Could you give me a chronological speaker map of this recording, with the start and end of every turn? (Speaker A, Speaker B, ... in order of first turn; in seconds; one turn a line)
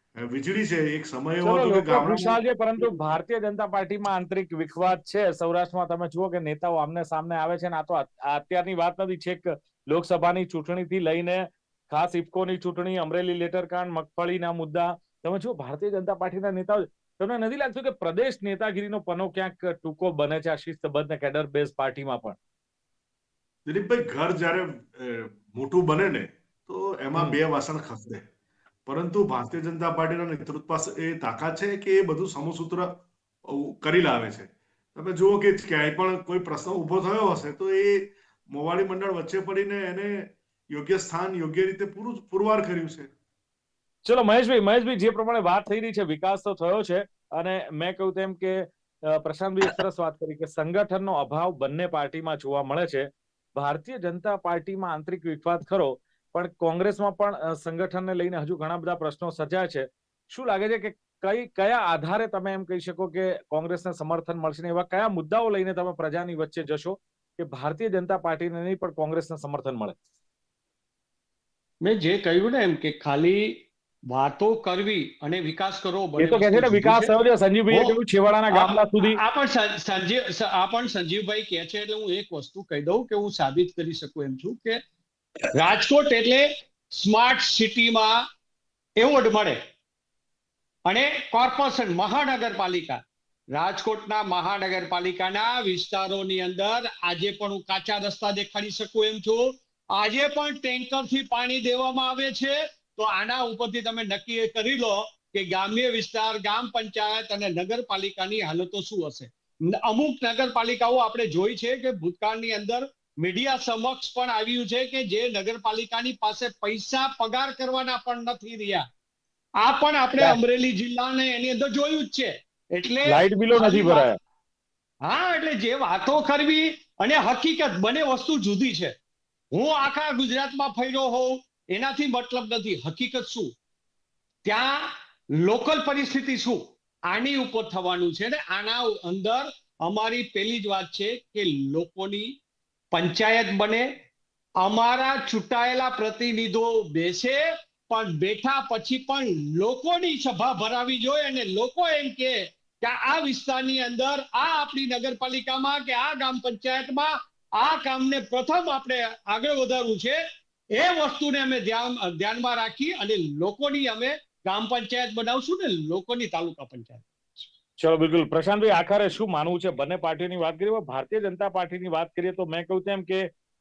Speaker A: 0.2-2.9
Speaker B: 1.4-22.4
Speaker A: 23.7-28.2
Speaker A: 28.9-43.1
Speaker B: 44.0-70.0
Speaker C: 71.8-77.1
Speaker B: 76.2-79.2
Speaker C: 77.7-78.0
Speaker C: 78.5-84.8
Speaker C: 85.5-88.2
Speaker C: 89.0-89.6
Speaker C: 90.9-93.0
Speaker C: 93.5-118.9
Speaker C: 119.6-124.1
Speaker B: 123.1-124.2
Speaker C: 125.0-128.9
Speaker C: 129.5-133.5
Speaker C: 134.4-142.3
Speaker C: 142.9-143.9
Speaker C: 144.6-160.2
Speaker C: 160.7-167.1
Speaker B: 167.8-173.3